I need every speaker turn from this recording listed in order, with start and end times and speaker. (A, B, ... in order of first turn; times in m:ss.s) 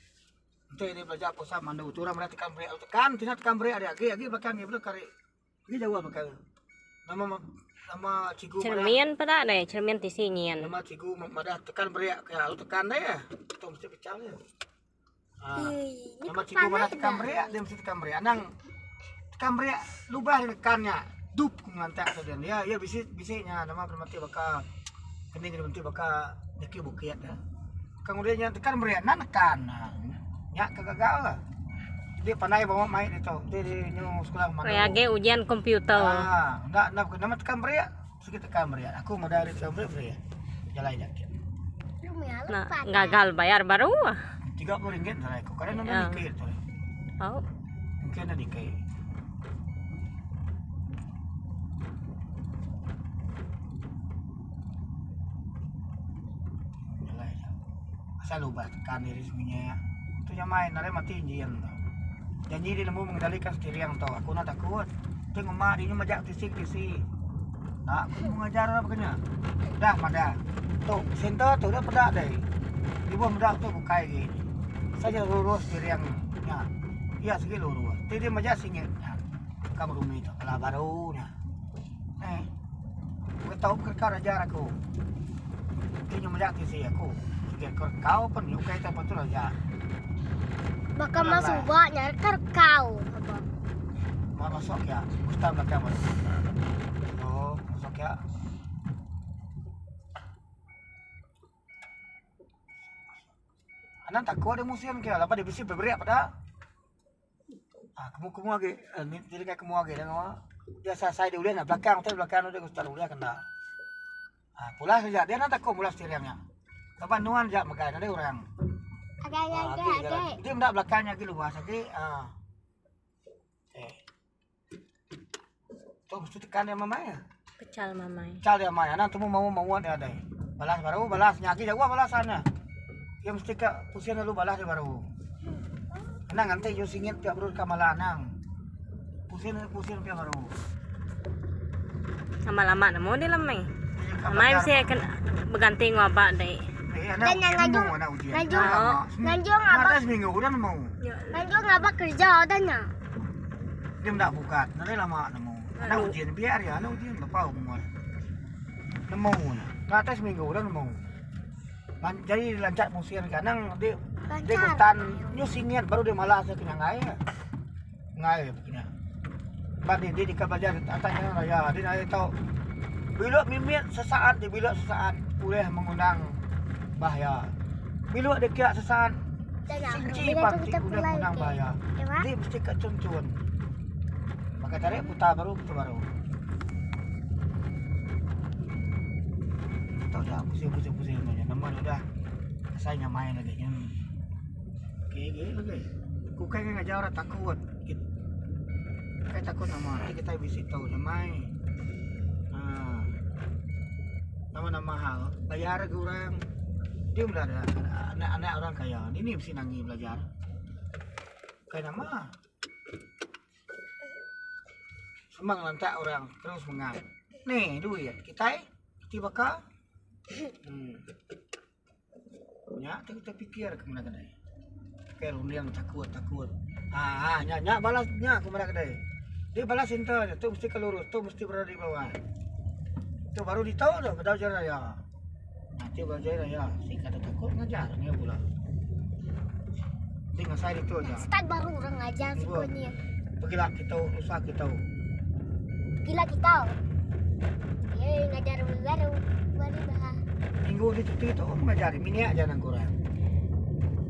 0:00.7-0:05.1 A
0:05.7-0:06.4 A
0:07.0-0:09.0 A
0:08.6-0:10.7 B
0:10.6-0:14.4 A
0:15.4-0:18.5 A
0:15.5-0:17.6 C
0:19.3-0:24.7 A
0:25.3-0:27.4 A
0:28.0-0:31.4 A
0:32.2-0:35.0 A
0:34.6-0:36.3 B
0:35.9-0:40.2 A
0:40.7-0:41.4 A
0:42.0-0:43.2 C
0:42.5-0:44.2 B
0:44.4-0:46.6 A
0:45.7-0:46.2 B
0:47.2-0:47.4 B
0:48.0-0:48.8 A
0:56.8-0:57.6 A
0:58.2-1:01.8 A
1:02.5-1:07.1 A
1:07.8-1:12.5 A
1:13.0-1:14.4 A
1:15.0-1:16.7 A
1:17.2-1:19.2 A
1:19.7-1:21.3 A
1:22.2-1:22.5 A
1:23.4-1:24.8 A
1:26.0-1:29.6 A
1:31.0-1:33.5 C
1:31.1-1:31.7 A
1:34.3-1:36.1 A
1:37.1-1:38.2 A
1:44.0-1:46.3 A
1:48.0-1:53.4 A
1:54.6-1:56.4 A
1:57.0-1:58.5 A
1:59.2-2:00.4 C
1:59.5-2:02.3 A
2:03.7-2:04.0 A
2:06.1-2:07.2 A
2:07.6-2:08.4 B
2:08.4-2:12.5 A
2:13.2-2:15.1 A
2:16.3-2:18.3 A
2:19.3-2:20.5 A
2:22.4-2:23.7 B
2:23.9-2:25.0 A
2:24.2-2:26.7 B
2:26.8-2:30.9 A
2:27.2-2:30.1 C
2:28.5-2:29.0 B
2:31.0-2:31.5 B
2:31.3-2:32.9 C
2:34.0-2:37.9 A
2:35.8-2:36.1 B
2:39.1-2:41.0 A
2:42.0-2:47.2 A
2:44.3-2:45.5 C
2:48.2-2:48.9 A
2:49.8-2:52.4 A
2:53.1-2:56.4 A
2:57.0-2:57.5 A
2:58.1-3:03.4 A
2:59.7-3:02.3 C
3:04.6-3:06.1 A
3:04.8-3:05.2 C
3:10.0-3:12.0 A
3:12.7-3:14.0 A
3:15.1-3:18.0 A
3:19.3-3:21.5 A
3:22.5-3:23.2 A
3:24.5-3:26.5 A
3:27.1-3:30.3 A
3:31.7-3:32.3 A
3:35.3-3:39.6 A
3:40.6-3:41.0 A
3:42.7-3:44.3 A
3:45.2-3:49.0 A
3:49.5-3:52.2 A
3:53.3-3:55.0 A
3:55.7-3:58.4 A
4:00.3-4:01.3 A
4:01.0-4:03.0 C
4:02.3-4:02.7 A
4:03.4-4:04.8 A
4:06.0-4:06.8 C
4:07.9-4:10.2 C
4:10.6-4:13.0 A